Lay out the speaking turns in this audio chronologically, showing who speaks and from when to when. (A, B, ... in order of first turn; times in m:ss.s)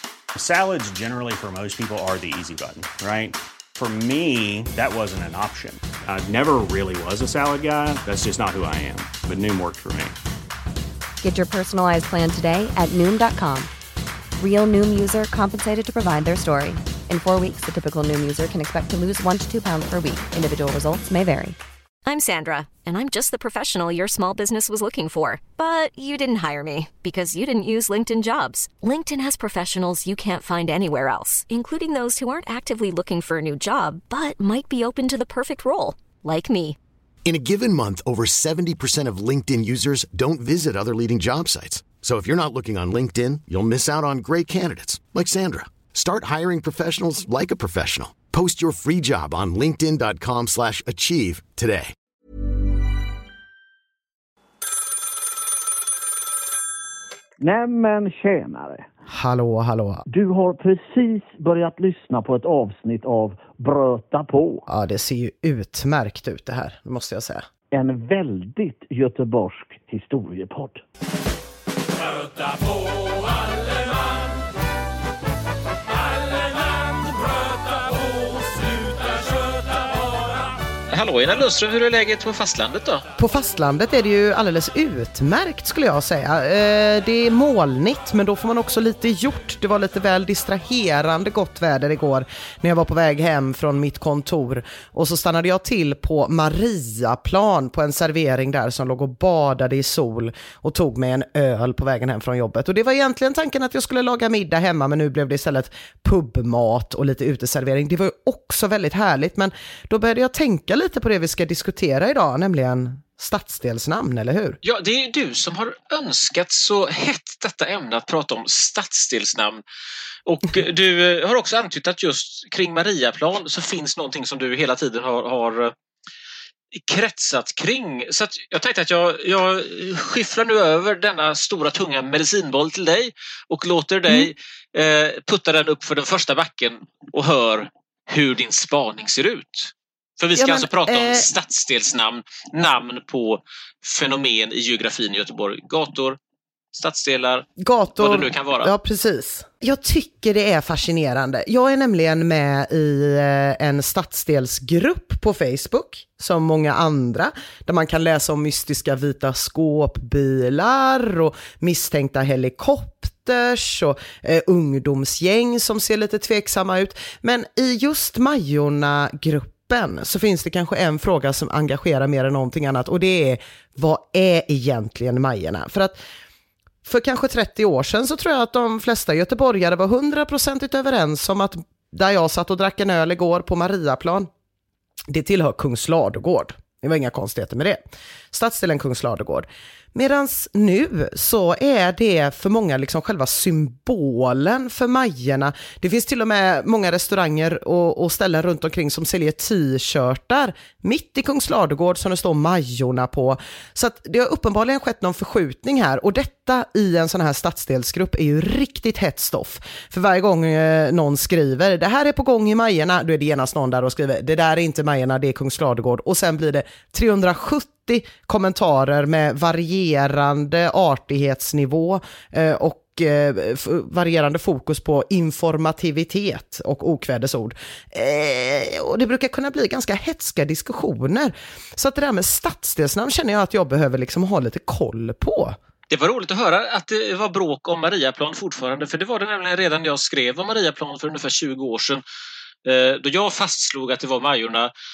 0:00.4-0:10.2 A
0:11.2-0:13.7 B
0:14.4-0:21.6 B
0:22.1-0:36.8 C
0:37.2-0:51.9 D
0:57.4-0:58.9 E
0:59.1-1:00.0 F
1:00.1-1:04.7 E
1:04.7-1:07.5 F
1:07.7-1:10.8 E
1:20.9-1:23.0 G
1:23.2-1:54.6 F
1:54.6-1:59.6 G
2:00.3-2:05.7 G
2:06.7-2:26.2 G
2:20.4-2:21.3 F
2:26.7-2:28.7 G
2:27.6-2:56.0 F
2:56.8-3:04.3 F
3:05.1-3:55.6 F
3:55.9-4:02.0 G
4:02.6-4:04.7 G